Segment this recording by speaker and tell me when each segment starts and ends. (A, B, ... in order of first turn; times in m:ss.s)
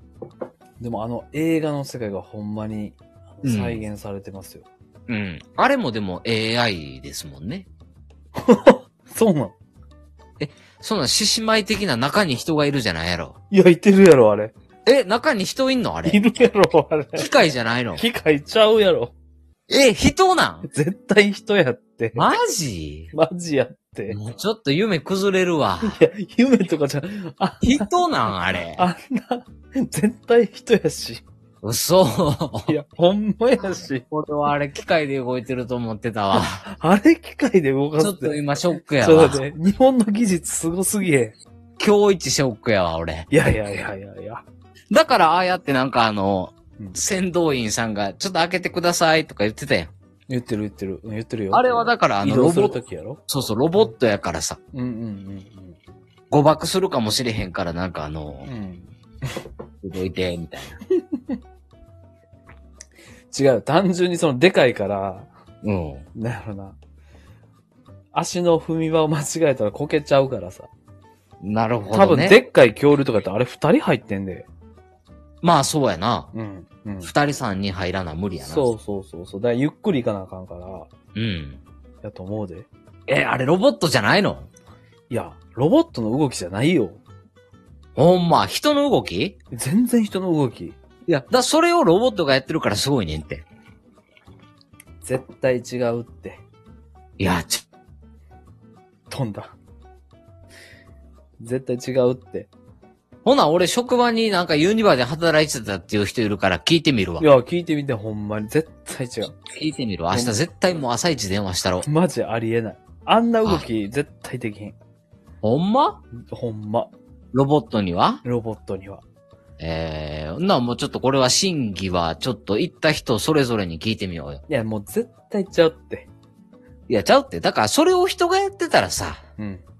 0:00.8-0:04.7 A
0:03.4-0:03.8 B
0:05.1-0:07.7 B
0:08.4-0:09.5 A
0:10.4-0:13.4 B
0:13.5-0:14.5 A
0:14.8-0:16.2 B
0:16.0-0:17.3 A
0:17.1-0:18.0 B
0:18.0-0:19.1 A
0:19.7-0:20.7 B
0:20.7-0:22.2 A
0:22.1-0:23.1 B
0:23.1-0:24.2 A
0:24.1-0:26.0 B
0:25.8-0:27.9 A
0:27.6-0:28.8 B
0:28.8-0:31.2 A
0:31.6-0:32.7 B
0:32.7-0:34.0 A
0:34.1-0:36.6 B
0:36.3-0:38.4 A
0:38.0-0:39.4 B
0:39.0-0:41.4 A
0:41.8-0:43.3 B
0:43.3-0:44.4 A
0:44.9-0:49.9 B
0:50.3-0:53.2 A
0:51.5-0:54.6 B
0:54.7-0:55.8 A
0:56.3-0:58.5 B
0:58.4-0:59.4 A
0:59.8-1:00.8 B
1:01.0-1:01.4 A
1:03.3-1:05.3 A
1:05.6-1:06.0 B
1:06.1-1:06.8 A
1:08.1-1:10.7 A
1:11.4-1:12.4 B
1:11.9-1:14.5 A
1:15.4-1:16.3 B
1:16.3-1:17.1 A
1:17.0-1:18.7 B
1:18.4-1:20.9 A
1:21.1-1:21.6 B
1:22.0-1:22.7 A
1:23.1-1:24.5 B
1:25.1-1:27.0 A
1:28.0-1:29.4 B
1:29.5-1:30.8 A
1:31.1-1:33.4 B
1:35.0-1:36.4 A
1:37.2-1:37.6 B
1:39.1-1:39.6 A
1:41.4-1:42.5 A
1:43.2-1:47.3 B
1:47.2-1:49.4 A
1:49.4-1:51.9 B
1:50.1-1:50.4 A
1:51.8-1:54.8 A
1:55.4-1:56.0 B
1:56.2-1:56.9 A
1:57.3-1:58.2 B
1:58.2-1:59.0 A
1:59.6-2:04.4 B
2:04.5-2:06.1 A
2:06.9-2:09.2 B
2:09.4-2:09.6 A